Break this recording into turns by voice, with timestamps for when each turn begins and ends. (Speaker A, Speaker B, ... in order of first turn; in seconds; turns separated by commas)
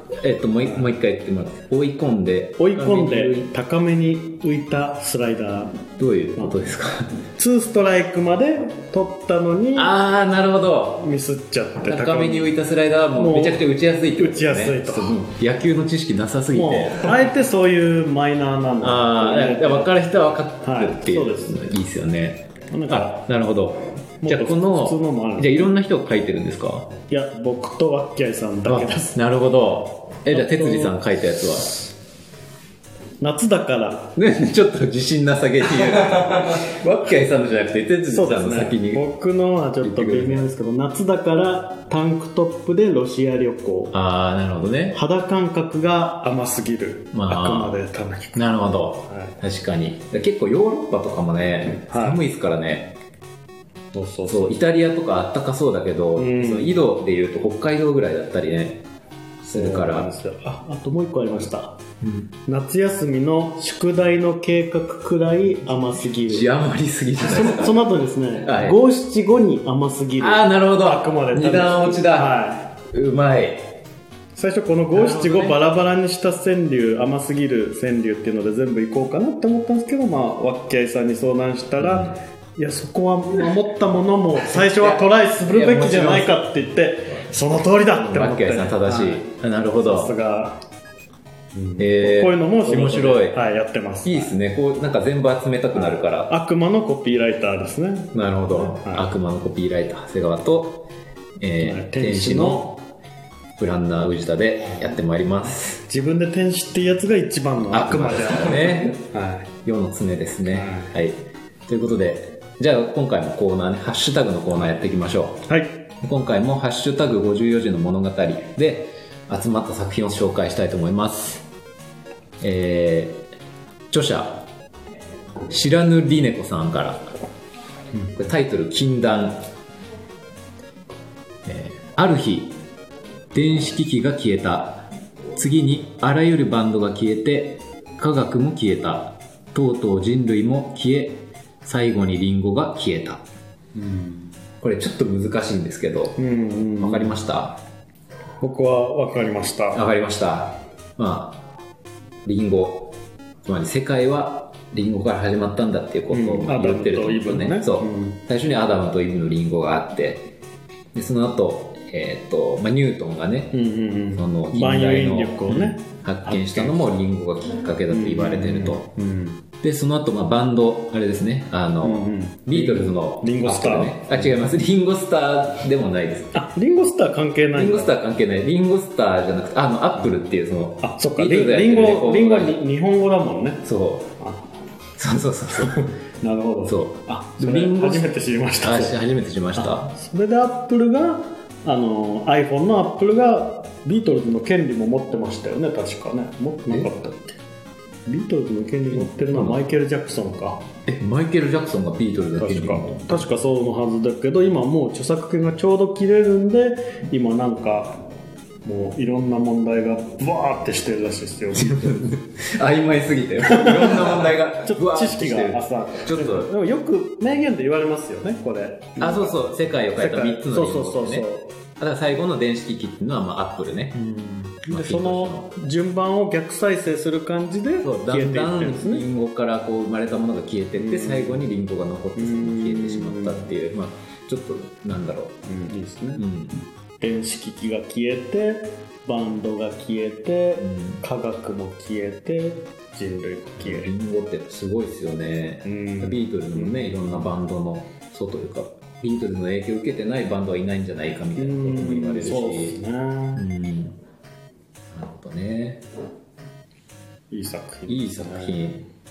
Speaker A: 0.2-3.5, Speaker B: 0.6-0.9, Speaker B: 2.6-5.8, Speaker A: 6.0-7.2, Speaker B: 7.4-9.9, Speaker A: 9.8-11.1, Speaker B: 11.0-12.6, Speaker A: 11.8-17.2, Speaker B: 13.2-15.2, Speaker B: 16.5-20.0, Speaker A: 18.8-26.9, Speaker B: 20.6-21.6, Speaker B: 22.7-23.2, Speaker B: 24.2-25.7, Speaker B: 27.1-29.2, Speaker A: 28.7-31.8, Speaker B: 30.3-31.0, Speaker B: 33.2-34.1, Speaker A: 34.2-39.0, Speaker B: 38.1-44.0, Speaker A: 39.8-40.5, Speaker A: 43.9-45.0, Speaker B: 44.9-49.4, Speaker A: 47.1-47.8, Speaker A: 48.3-53.0, Speaker B: 51.8-52.2, Speaker B: 53.9-54.6, Speaker A: 54.3-58.8, Speaker B: 56.2-56.9, Speaker A: 59.4-60.1, Speaker B: 59.5-61.8, Speaker A: 62.0-62.3, Speaker B: 62.5-66.5, Speaker A: 66.3-67.9, Speaker B: 67.2-72.7, Speaker A: 68.4-68.8, Speaker A: 70.2-73.7, Speaker B: 74.3-90.6, Speaker A: 74.9-75.6, Speaker A: 81.8-82.2, Speaker A: 84.4-86.5, Speaker A: 88.0-90.1, Speaker B: 91.5-94.3, Speaker A: 91.8-93.4, Speaker A: 94.0-96.3, Speaker B: 95.8-99.1, Speaker A: 98.1-100.8, Speaker A: 101.4-102.8, Speaker B: 101.6-102.7, Speaker A: 103.6-105.8, Speaker B: 105.9-109.5, Speaker A: 107.7-109.0, Speaker A: 109.6-115.5, Speaker B: 110.5-110.9, Speaker B: 115.5-115.7, Speaker A: 116.0-121.5, Speaker A: 122.4-123.2, Speaker A: 123.9-124.5, Speaker A: 125.5-127.1, Speaker A: 128.1-129.4, Speaker A: 131.5-132.6, Speaker A: 133.3-143.2, Speaker B: 143.8-144.3, Speaker A: 144.6-146.2, Speaker B: 146.2-147.2, Speaker A: 146.8-147.6, Speaker B: 148.4-149.8, Speaker A: 149.7-151.4, Speaker A: 152.3-152.9, Speaker A: 153.4-160.3, Speaker B: 156.1-158.2, Speaker A: 160.9-163.6, Speaker B: 163.5-166.9, Speaker A: 164.1-168.9, Speaker B: 167.9-169.4, Speaker A: 169.6-176.5, Speaker B: 171.8-174.4, Speaker B: 176.3-177.9, Speaker A: 177.5-182.6, Speaker B: 180.8-183.7, Speaker A: 183.6-184.1, Speaker B: 184.2-184.5, Speaker A: 185.0-186.0, Speaker B: 186.2-189.0, Speaker A: 186.6-189.9, Speaker B: 189.6-197.4, Speaker B: 198.1-200.7, Speaker A: 198.9-199.7, Speaker A: 200.9-203.3, Speaker B: 202.4-208.0, Speaker B: 208.7-212.0, Speaker A: 211.5-216.5, Speaker B: 213.4-221.5, Speaker A: 219.0-221.3, Speaker A: 221.8-224.0, Speaker B: 223.9-229.0, Speaker A: 224.7-225.5, Speaker A: 227.8-235.4, Speaker B: 230.8-231.5, Speaker B: 232.2-233.5, Speaker B: 235.4-236.3, Speaker A: 236.2-236.6, Speaker B: 237.0-243.9, Speaker A: 240.6-241.1, Speaker A: 243.6-252.8, Speaker B: 245.7-247.3, Speaker B: 251.4-253.4, Speaker A: 253.4-254.0, Speaker A: 254.9-255.8, Speaker B: 257.3-258.8, Speaker A: 257.9-258.9